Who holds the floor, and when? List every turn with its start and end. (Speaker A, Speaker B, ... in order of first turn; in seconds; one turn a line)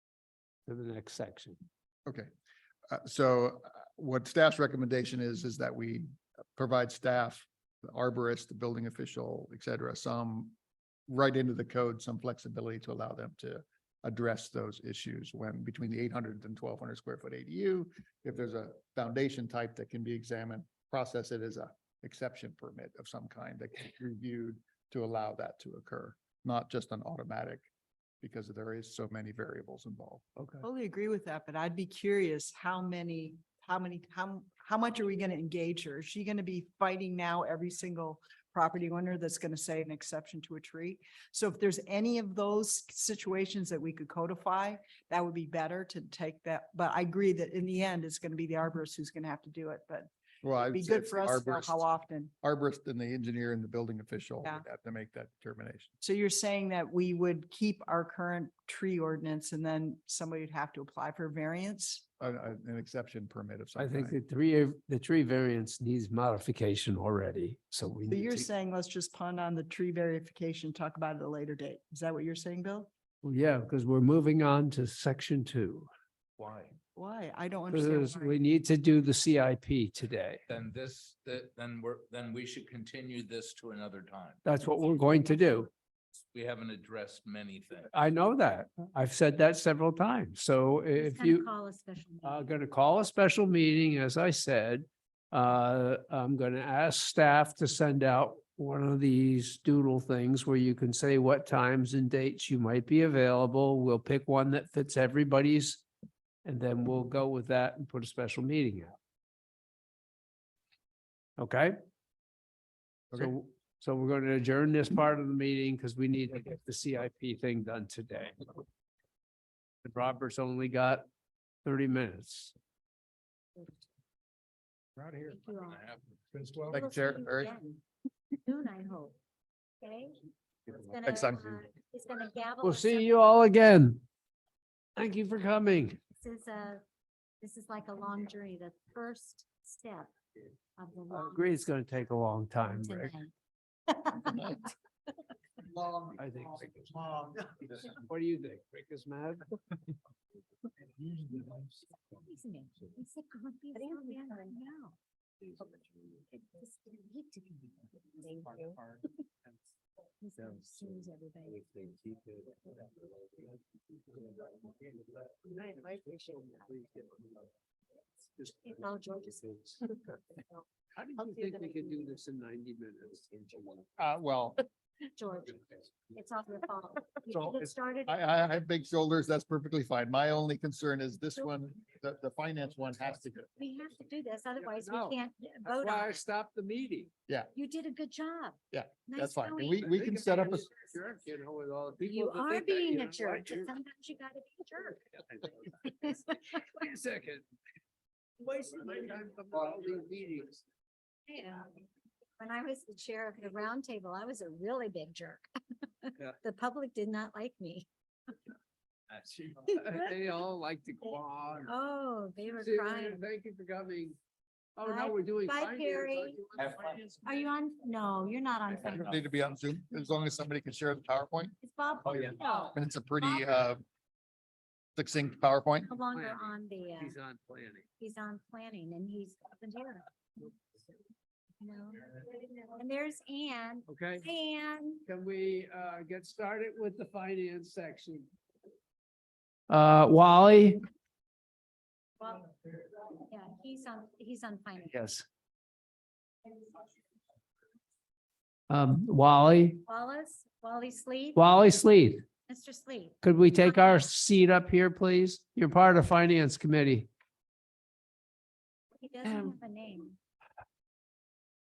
Speaker A: 0.7-1.6
Speaker B: 2.9-10.6
Speaker B: 11.1-27.7
Speaker B: 28.2-30.6
Speaker C: 30.6-50.1
Speaker B: 50.4-51.8
Speaker C: 50.7-52.3
Speaker B: 52.4-55.9
Speaker C: 56.0-62.0
Speaker B: 62.2-64.2
Speaker A: 63.8-68.5
Speaker C: 68.1-72.9
Speaker A: 73.2-75.9
Speaker D: 76.4-76.8
Speaker C: 77.0-78.4
Speaker A: 77.7-80.4
Speaker D: 80.5-84.4
Speaker A: 84.5-85.7
Speaker E: 84.8-85.7
Speaker D: 86.3-87.9
Speaker A: 87.9-91.5
Speaker E: 90.9-92.6
Speaker A: 92.2-105.8
Speaker A: 106.5-109.0
Speaker A: 111.4-111.8
Speaker A: 113.1-118.5
Speaker A: 119.8-121.1
Speaker A: 121.7-122.5
Speaker E: 123.6-123.9
Speaker E: 125.3-125.8
Speaker D: 125.7-126.0
Speaker E: 126.6-127.8
Speaker B: 126.7-127.5
Speaker E: 128.4-129.2
Speaker E: 129.8-133.4
Speaker B: 131.0-131.6
Speaker A: 132.6-134.0
Speaker A: 135.0-136.0
Speaker E: 136.2-136.8
Speaker E: 137.4-140.1
Speaker E: 140.8-141.7
Speaker A: 141.1-143.1
Speaker E: 142.7-143.3
Speaker E: 143.9-144.7
Speaker A: 146.1-147.1
Speaker A: 147.8-149.6
Speaker E: 152.1-155.0
Speaker E: 156.6-157.7
Speaker E: 160.2-161.7
Speaker A: 161.7-162.4
Speaker A: 165.5-167.2
Speaker A: 168.4-168.6
Speaker E: 168.6-169.6
Speaker A: 169.5-169.8
Speaker E: 170.4-170.7
Speaker A: 171.0-173.8
Speaker B: 174.0-174.6
Speaker E: 175.2-178.2
Speaker B: 177.3-183.5
Speaker E: 183.6-186.2
Speaker A: 184.6-187.1
Speaker E: 187.5-189.8
Speaker B: 188.7-190.7
Speaker A: 189.8-193.7
Speaker E: 192.0-195.1
Speaker A: 195.2-195.5
Speaker E: 195.7-196.6
Speaker A: 196.5-197.4
Speaker A: 198.4-200.6
Speaker E: 201.3-201.8
Speaker E: 202.4-207.9
Speaker A: 209.2-211.8
Speaker E: 211.7-213.2
Speaker A: 212.6-214.2
Speaker A: 214.8-217.2
Speaker E: 214.9-216.4
Speaker E: 217.2-219.2
Speaker B: 218.8-221.6
Speaker E: 221.6-223.5
Speaker B: 222.7-223.8
Speaker B: 225.0-225.9
Speaker E: 225.8-227.2
Speaker A: 226.1-227.9
Speaker E: 228.0-230.1
Speaker E: 231.6-235.0
Speaker A: 233.9-234.3
Speaker A: 235.1-238.3
Speaker A: 239.7-240.8
Speaker E: 242.2-242.5
Speaker E: 243.3-245.0
Speaker A: 244.9-245.2
Speaker A: 248.7-249.8
Speaker E: 249.9-251.4
Speaker A: 251.4-252.2
Speaker E: 252.5-254.1
Speaker A: 253.2-257.1
Speaker E: 259.0-260.2